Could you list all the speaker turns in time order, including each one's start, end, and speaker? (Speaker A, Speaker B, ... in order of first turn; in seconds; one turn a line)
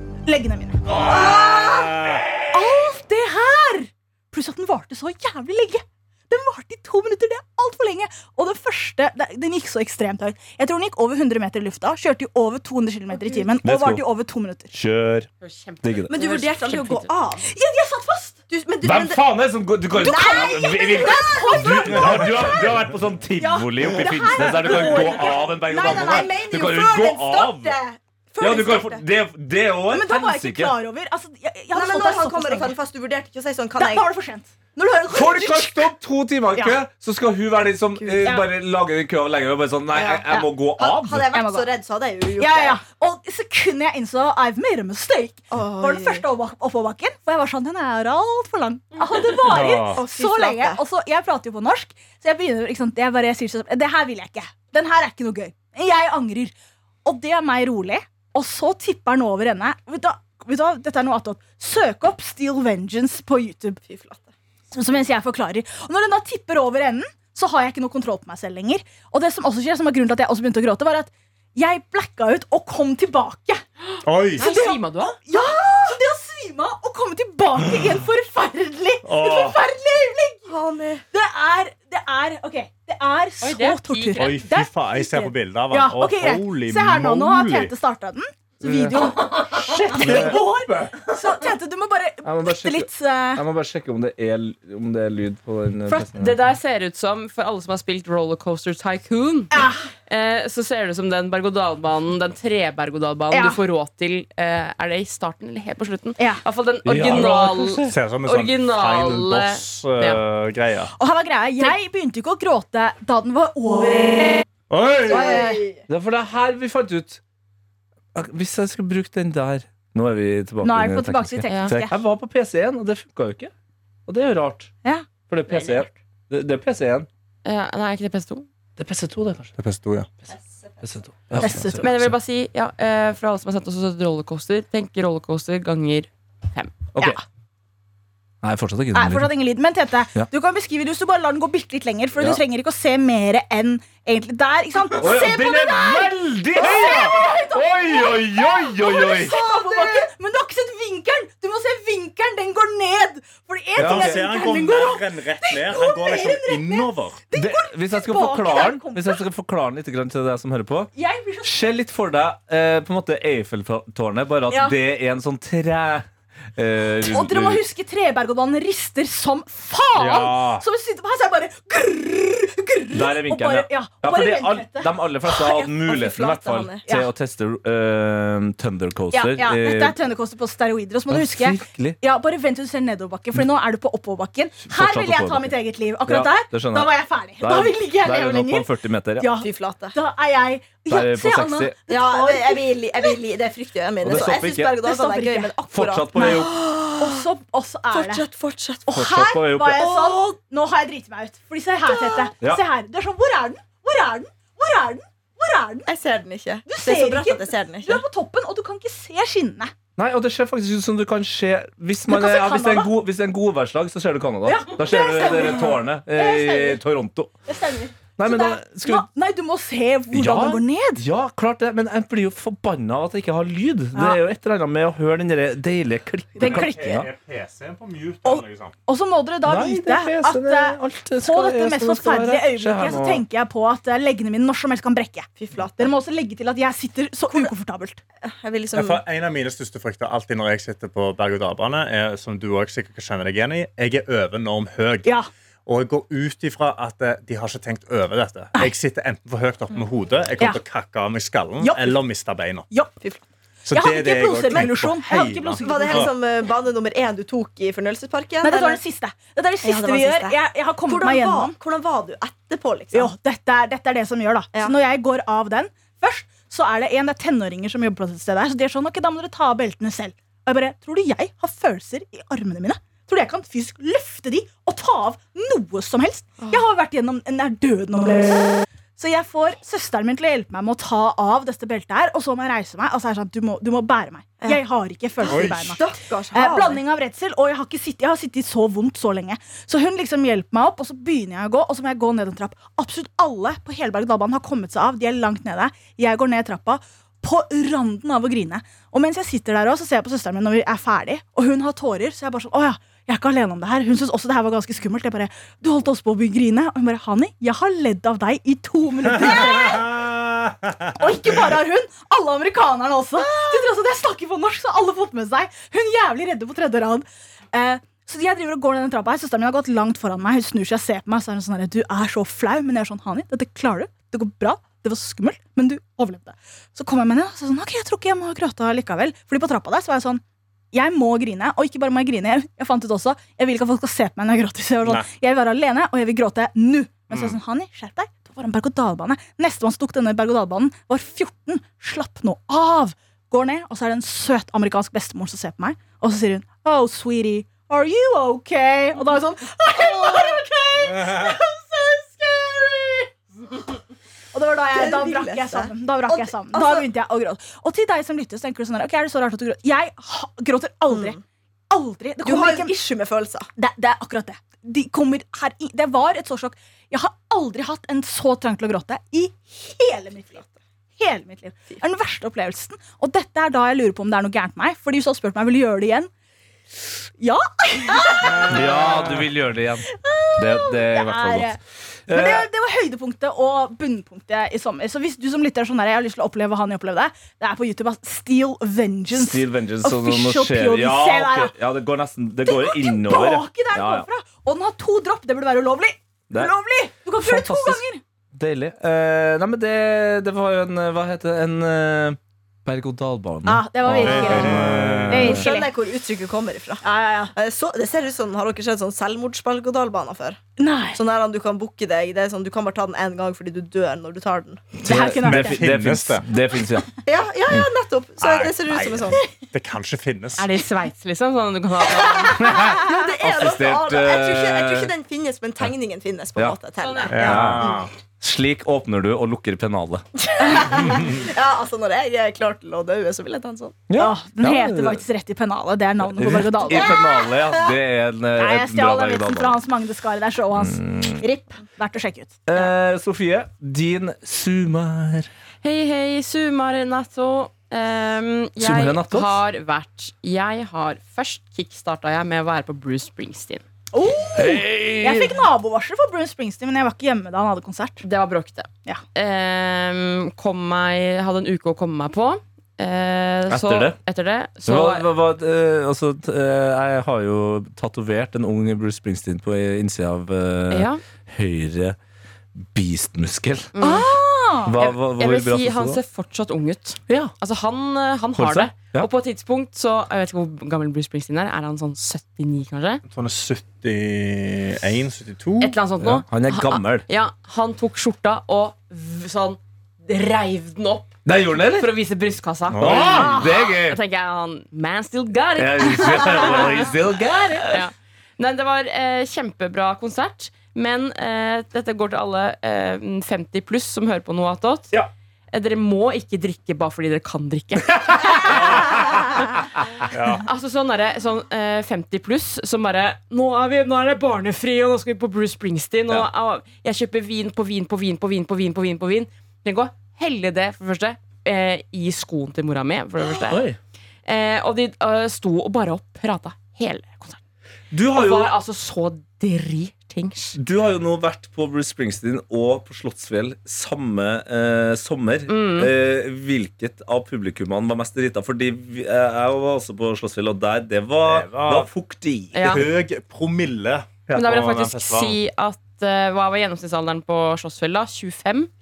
Speaker A: 0.3-1.9
Speaker B: 1.1-2.2
Speaker C: 1.2-1.8
Speaker A: 2.5-14.7
Speaker D: 13.6-14.0
Speaker D: 14.7-15.3
Speaker E: 15.4-17.1
Speaker D: 15.8-16.1
Speaker C: 16.1-17.5
Speaker A: 17.4-18.4
Speaker C: 18.5-19.2
Speaker D: 18.8-27.8
Speaker C: 19.9-22.6
Speaker A: 20.0-22.6
Speaker A: 23.4-26.6
Speaker C: 24.6-29.0
Speaker D: 28.4-30.8
Speaker A: 29.9-32.7
Speaker C: 31.7-34.1
Speaker A: 33.8-35.9
Speaker D: 35.1-41.3
Speaker C: 38.0-38.4
Speaker C: 39.9-42.8
Speaker A: 41.3-41.7
Speaker A: 42.4-56.5
Speaker C: 45.5-46.2
Speaker C: 49.3-50.8
Speaker B: 49.5-50.0
Speaker A: 57.0-63.8
Speaker C: 63.8-64.3
Speaker A: 64.7-73.6
Speaker E: 73.9-75.2
Speaker B: 74.0-74.4
Speaker A: 74.4-80.5
Speaker B: 79.1-79.6
Speaker C: 80.5-81.0
Speaker A: 81.1-93.4
Speaker E: 83.4-84.4
Speaker B: 84.2-87.7
Speaker D: 88.6-91.0
Speaker B: 90.0-90.4
Speaker D: 92.2-96.4
Speaker E: 96.1-110.2
Speaker A: 99.5-99.9
Speaker A: 103.3-103.6
Speaker D: 106.8-107.9
Speaker B: 107.9-110.9
Speaker A: 110.9-114.4
Speaker B: 114.7-115.5
Speaker C: 115.1-115.8
Speaker A: 115.1-115.6
Speaker D: 115.9-117.2
Speaker D: 118.1-123.5
Speaker A: 120.6-122.0
Speaker E: 121.5-121.7
Speaker D: 124.1-124.7
Speaker D: 125.3-127.1
Speaker E: 125.5-125.9
Speaker E: 127.4-128.5
Speaker D: 128.8-129.6
Speaker B: 129.6-130.1
Speaker C: 130.3-131.0
Speaker D: 130.8-132.1
Speaker A: 131.4-131.9
Speaker E: 131.8-136.8
Speaker D: 136.9-137.2
Speaker D: 138.4-139.3
Speaker A: 138.9-159.2
Speaker D: 144.9-149.4
Speaker C: 149.2-150.1
Speaker D: 153.8-154.3
Speaker B: 153.8-157.2
Speaker D: 157.3-160.9
Speaker A: 160.9-161.5
Speaker D: 161.4-167.6
Speaker A: 164.5-164.8
Speaker A: 167.0-175.0
Speaker B: 169.9-170.4
Speaker D: 170.1-170.5
Speaker D: 172.9-179.9
Speaker C: 175.4-176.8
Speaker A: 179.1-193.1
Speaker D: 181.1-182.0
Speaker D: 184.6-185.5
Speaker D: 186.1-189.3
Speaker C: 189.4-190.0
Speaker D: 190.9-191.8
Speaker C: 191.9-197.2
Speaker D: 194.0-194.8
Speaker A: 194.8-198.2
Speaker D: 195.7-196.5
Speaker C: 197.9-199.1
Speaker A: 198.9-205.9
Speaker D: 198.9-199.9
Speaker C: 199.8-200.3
Speaker C: 201.9-202.3
Speaker C: 205.9-208.0
Speaker A: 206.7-209.7
Speaker D: 210.0-217.4
Speaker A: 212.1-212.9
Speaker A: 214.4-216.8
Speaker A: 217.4-221.0
Speaker D: 218.2-219.1
Speaker D: 220.1-227.1
Speaker A: 223.9-224.2
Speaker A: 226.4-227.0
Speaker B: 226.4-228.8
Speaker A: 228.2-238.0
Speaker D: 229.4-233.2
Speaker C: 235.4-235.9
Speaker C: 238.2-239.0
Speaker B: 238.7-245.1
Speaker B: 245.7-252.7
Speaker A: 251.6-252.0
Speaker A: 252.7-253.0
Speaker B: 253.7-256.1
Speaker A: 253.7-256.1
Speaker C: 254.5-254.8
Speaker C: 255.6-258.8
Speaker A: 258.4-261.6
Speaker C: 259.6-263.1
Speaker A: 262.9-310.0
Speaker C: 285.2-286.8
Speaker B: 285.3-285.7
Speaker B: 309.2-310.8
Speaker A: 310.9-352.8
Speaker C: 313.3-313.6
Speaker B: 337.1-337.4
Speaker C: 349.7-351.4
Speaker C: 352.2-353.0
Speaker A: 354.3-362.8
Speaker C: 354.7-356.9
Speaker C: 360.9-361.2
Speaker C: 362.2-363.5
Speaker A: 363.6-370.4
Speaker A: 371.0-376.1
Speaker A: 377.2-379.0
Speaker B: 378.4-378.8
Speaker D: 378.5-381.6
Speaker A: 379.9-391.6
Speaker D: 382.1-382.5
Speaker D: 389.1-394.1
Speaker A: 392.4-398.0
Speaker D: 397.1-405.5
Speaker A: 403.4-405.7
Speaker B: 404.0-405.4
Speaker C: 405.2-406.8
Speaker A: 406.8-407.3
Speaker C: 407.4-410.4
Speaker A: 410.6-411.0
Speaker C: 410.9-414.7
Speaker A: 414.8-415.6
Speaker D: 414.8-416.9
Speaker B: 415.2-416.3
Speaker C: 417.1-419.2
Speaker B: 418.2-420.5
Speaker E: 420.4-422.4
Speaker C: 421.8-427.8
Speaker D: 422.4-424.9
Speaker E: 426.8-427.4
Speaker B: 427.1-427.9
Speaker D: 427.1-427.7
Speaker D: 428.2-430.0
Speaker C: 430.2-433.8
Speaker D: 433.9-435.0
Speaker A: 434.0-437.0
Speaker D: 436.0-439.6
Speaker C: 436.8-437.1
Speaker A: 438.4-442.7
Speaker D: 440.5-441.2
Speaker D: 442.5-445.3
Speaker E: 445.6-453.6
Speaker D: 448.6-449.4
Speaker A: 453.9-458.0
Speaker D: 454.4-455.4
Speaker E: 458.0-465.0
Speaker D: 463.5-464.0
Speaker D: 464.6-472.0
Speaker E: 470.7-471.0
Speaker D: 472.6-473.7
Speaker E: 473.8-474.2
Speaker A: 473.8-474.8
Speaker D: 474.6-476.0
Speaker E: 474.7-483.0
Speaker D: 478.4-479.1
Speaker B: 483.1-485.7
Speaker E: 485.6-496.9
Speaker D: 486.0-487.1
Speaker D: 491.2-491.9
Speaker B: 492.7-493.4
Speaker D: 492.8-494.0
Speaker D: 495.6-497.8
Speaker E: 497.6-504.9
Speaker E: 505.5-509.5
Speaker D: 508.1-509.0
Speaker B: 510.1-510.4
Speaker E: 510.4-523.6
Speaker D: 523.5-523.8
Speaker E: 524.2-527.4
Speaker D: 527.9-528.5
Speaker E: 528.1-530.6
Speaker D: 530.6-542.9
Speaker E: 535.5-535.9
Speaker B: 541.2-541.9
Speaker E: 542.5-542.9
Speaker B: 542.6-545.4
Speaker E: 544.3-548.7